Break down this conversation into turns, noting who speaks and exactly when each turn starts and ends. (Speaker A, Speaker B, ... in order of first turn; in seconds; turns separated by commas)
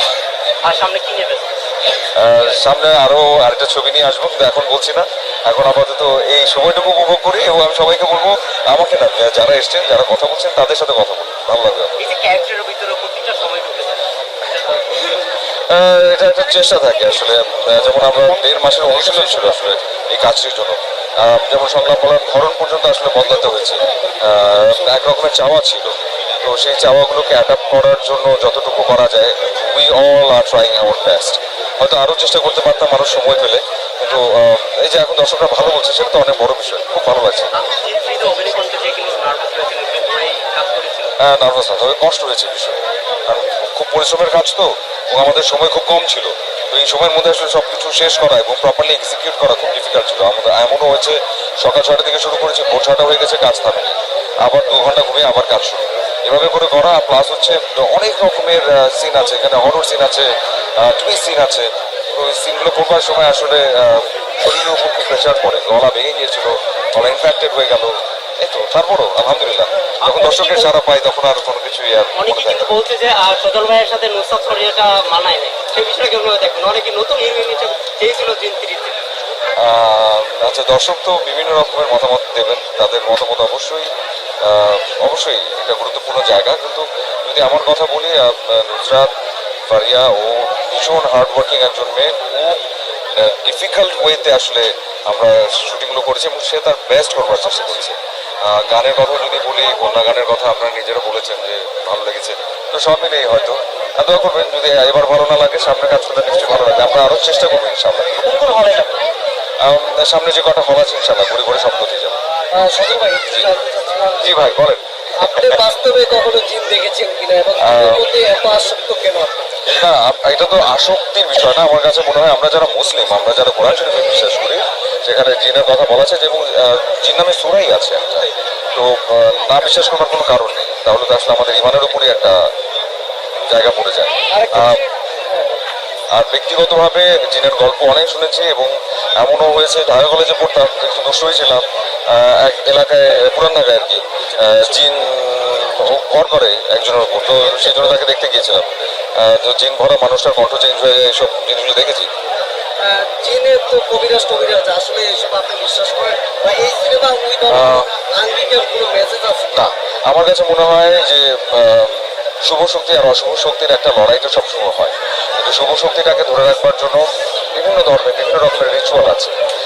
Speaker A: 0.6-1.5, Speaker B: 2.1-12.1, Speaker A: 12.0-15.0, Speaker B: 15.7-37.5, Speaker A: 37.5-41.1, Speaker B: 41.2-72.7, Speaker A: 70.0-70.7, Speaker A: 72.2-79.0, Speaker B: 79.6-83.9, Speaker B: 84.4-89.1, Speaker B: 89.7-92.6, Speaker B: 93.1-108.2, Speaker A: 108.2-109.0, Speaker B: 109.6-112.2, Speaker C: 112.5-114.1, Speaker B: 114.2-115.6, Speaker C: 115.2-119.5, Speaker B: 117.6-118.0, Speaker B: 119.6-132.5, Speaker B: 133.5-134.8, Speaker C: 134.3-134.8, Speaker B: 136.1-152.1, Speaker C: 152.8-159.6, Speaker B: 157.5-157.9, Speaker B: 159.5-169.3